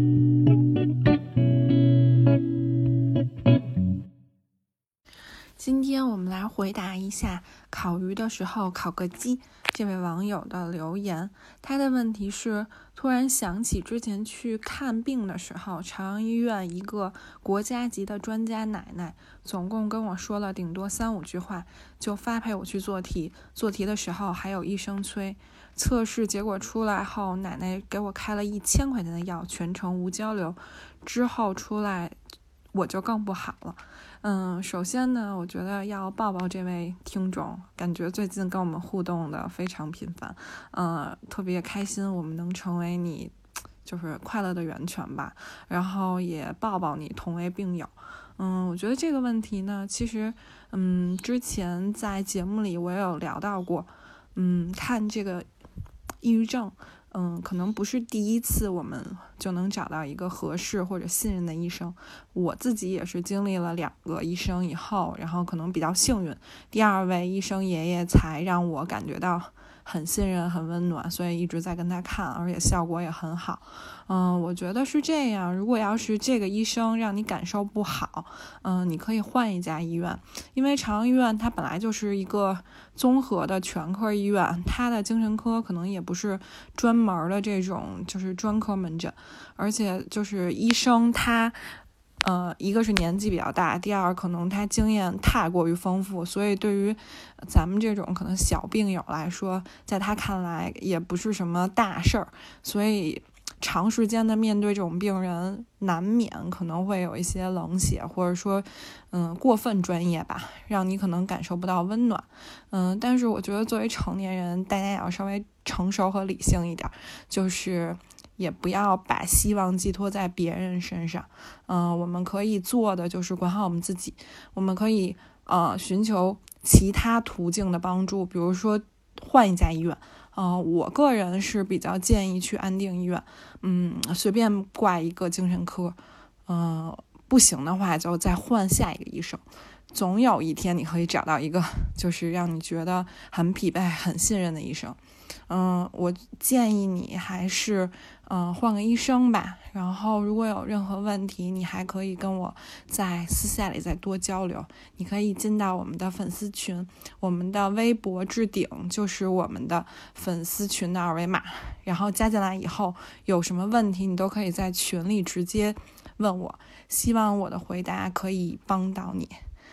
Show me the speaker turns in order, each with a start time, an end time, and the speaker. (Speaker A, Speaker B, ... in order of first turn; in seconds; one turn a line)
Speaker A: 5.6-32.2
Speaker A: 32.7-55.5
Speaker A: 56.2-91.6
Speaker A: 92.2-139.4
Speaker A: 139.9-145.0
Speaker A: 145.5-169.3